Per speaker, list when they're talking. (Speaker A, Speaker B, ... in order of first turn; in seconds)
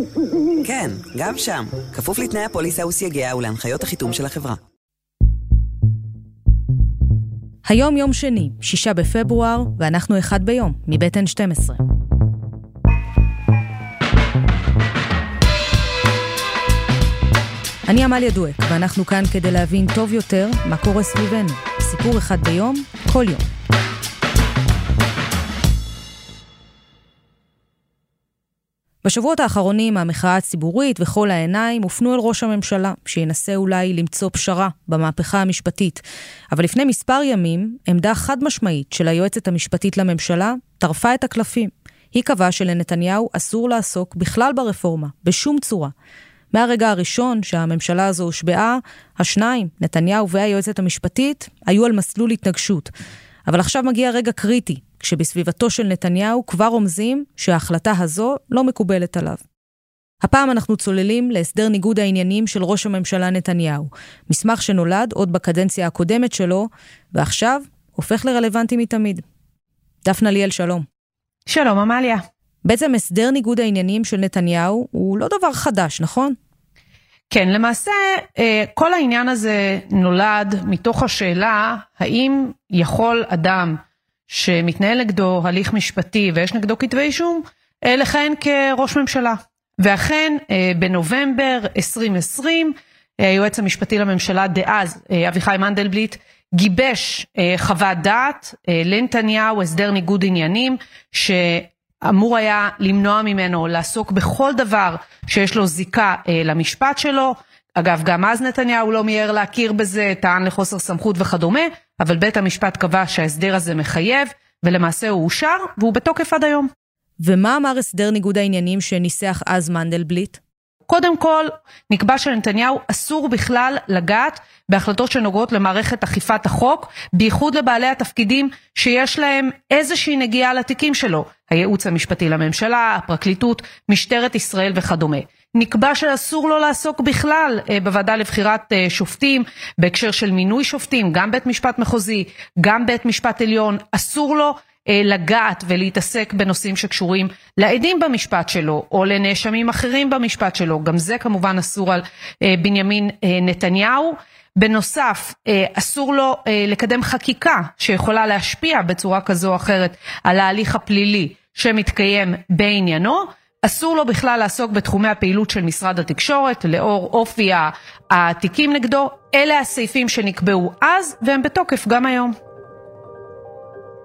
Speaker A: 0.6-4.6
Speaker B: 7.7-11.8, 17.9-23.4, 29.0-45.9, 46.5-52.9, 53.5-59.4, 60.2-69.2, 70.0-70.9, 72.7-76.4, 117.2-120.4
Speaker C: 71.5-72.2, 77.3-116.7, 120.9-172.3